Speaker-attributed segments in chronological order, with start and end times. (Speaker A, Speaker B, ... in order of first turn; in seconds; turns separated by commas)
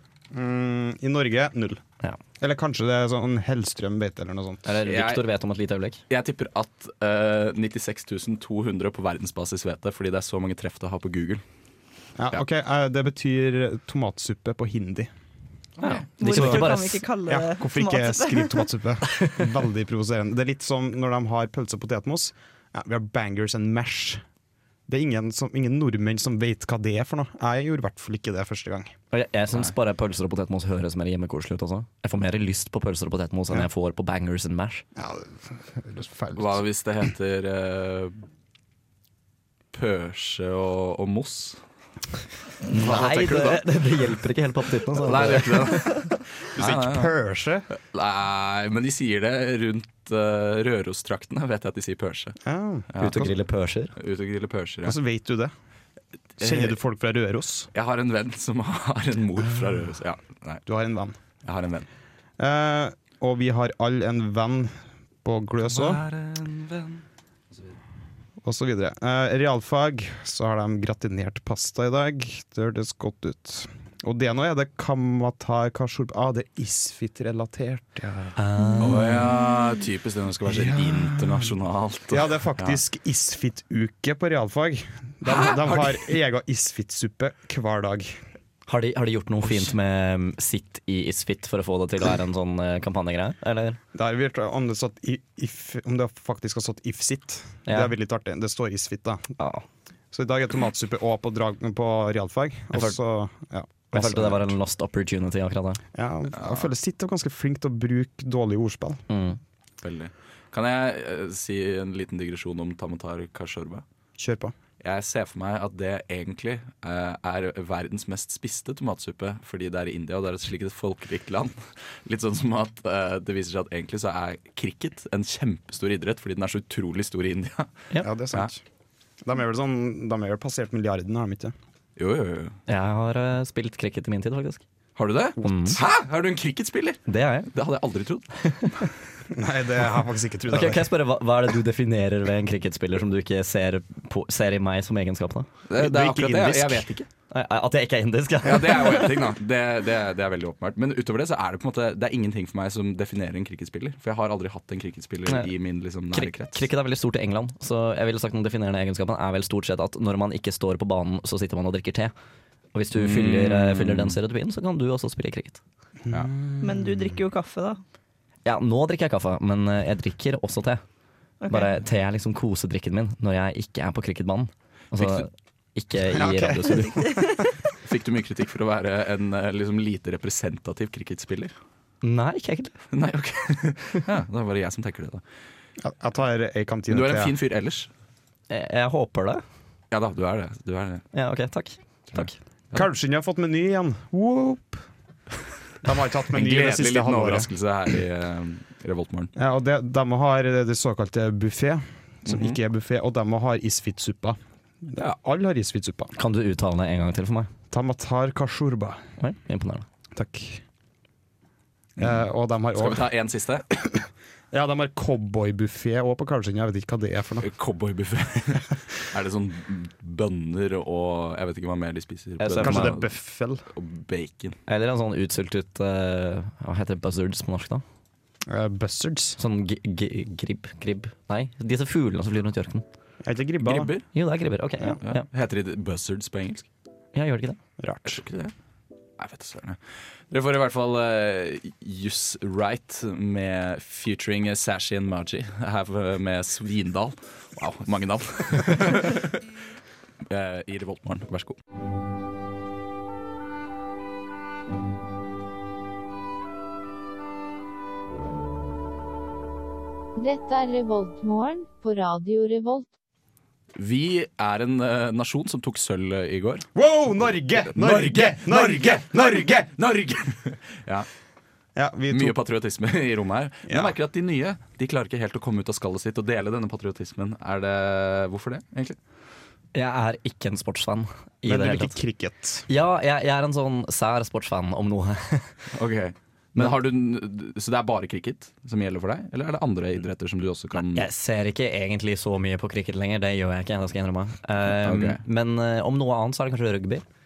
Speaker A: 0.3-1.8, Speaker A: 2.4-4.7, Speaker B: 4.7-6.0, Speaker C: 4.8-5.2, Speaker C: 6.1-11.4, Speaker A: 12.2-15.1, Speaker C: 15.8-16.4, Speaker B: 15.8-17.0, Speaker D: 16.2-18.7, Speaker A: 16.3-16.6, Speaker A: 17.3-24.2, Speaker A: 24.9-28.9, Speaker B: 29.1-34.8, Speaker A: 35.0-36.6, Speaker C: 36.4-38.2, Speaker C: 39.7-41.6, Speaker C: 42.7-43.6, Speaker B: 42.7-45.9, Speaker C: 44.9-47.1, Speaker A: 46.5-47.7, Speaker C: 47.8-52.4, Speaker A: 52.4-53.2, Speaker C: 52.9-53.3, Speaker B: 53.0-53.9, Speaker C: 54.0-55.0, Speaker A: 54.8-55.5, Speaker A: 56.4-57.7, Speaker C: 56.4-56.7, Speaker C: 57.7-60.6, Speaker A: 60.6-61.2, Speaker C: 61.4-61.9, Speaker A: 62.4-66.0, Speaker C: 65.7-67.0, Speaker A: 68.4-78.3, Speaker B: 78.4-79.2, Speaker C: 78.8-82.8, Speaker A: 80.5-81.5, Speaker A: 82.1-88.2, Speaker C: 85.2-86.1, Speaker B: 88.7-93.8, Speaker A: 93.9-99.3, Speaker B: 97.7-97.9, Speaker B: 99.4-99.6, Speaker A: 100.1-104.5, Speaker B: 102.7-103.0, Speaker B: 103.9-105.8, Speaker A: 105.9-109.0, Speaker C: 106.3-106.7, Speaker B: 109.1-109.4, Speaker C: 109.8-113.8, Speaker A: 114.2-114.5, Speaker C: 114.8-128.5, Speaker A: 128.0-128.6, Speaker A: 129.2-131.5, Speaker C: 132.0-132.6, Speaker B: 132.7-134.6, Speaker C: 134.9-138.3, Speaker B: 135.4-135.8, Speaker B: 137.1-137.5, Speaker B: 138.4-138.7, Speaker A: 139.3-140.9, Speaker B: 140.5-145.5, Speaker C: 145.7-147.1, Speaker A: 145.8-146.9, Speaker B: 147.3-149.1, Speaker C: 148.4-156.7, Speaker B: 156.1-162.1, Speaker B: 162.7-165.6, Speaker C: 162.9-164.2, Speaker A: 166.0-167.1, Speaker D: 166.6-167.8, Speaker B: 168.4-170.8, Speaker D: 171.4-171.7, Speaker B: 171.5-177.0, Speaker C: 174.9-175.2, Speaker A: 176.1-177.5, Speaker D: 176.7-177.7, Speaker C: 177.8-181.5, Speaker B: 182.0-182.8, Speaker C: 182.9-185.2, Speaker A: 185.8-187.3, Speaker C: 186.9-187.9, Speaker B: 188.5-189.4, Speaker C: 189.9-191.0, Speaker B: 191.1-192.3, Speaker C: 192.1-192.8, Speaker A: 192.7-194.8, Speaker A: 195.8-197.5, Speaker C: 196.3-199.3, Speaker A: 199.3-206.1, Speaker C: 202.2-202.6, Speaker B: 206.2-207.5, Speaker A: 207.7-209.0, Speaker B: 209.2-209.8, Speaker A: 210.1-210.6, Speaker A: 212.0-213.1, Speaker C: 212.0-213.7, Speaker A: 213.8-217.5, Speaker C: 217.4-223.1, Speaker B: 222.4-223.0, Speaker A: 222.6-223.7, Speaker C: 223.7-224.6, Speaker B: 224.7-227.8, Speaker A: 228.5-229.4, Speaker B: 229.4-232.8, Speaker A: 233.2-233.9, Speaker C: 233.6-234.1, Speaker B: 234.1-235.2, Speaker C: 235.0-236.7, Speaker B: 237.1-237.6, Speaker A: 237.8-238.2, Speaker C: 238.1-238.5, Speaker C: 239.2-239.8, Speaker C: 240.3-249.4, Speaker C: 250.3-251.6, Speaker E: 260.2-262.9, Speaker C: 263.8-266.7, Speaker A: 266.7-269.7, Speaker C: 267.7-271.1, Speaker A: 271.8-272.4, Speaker C: 272.1-279.0, Speaker A: 273.7-273.9, Speaker B: 279.7-281.9, Speaker A: 281.4-282.6, Speaker B: 282.7-285.5, Speaker C: 285.7-291.1, Speaker B: 290.8-297.0, Speaker C: 294.6-295.2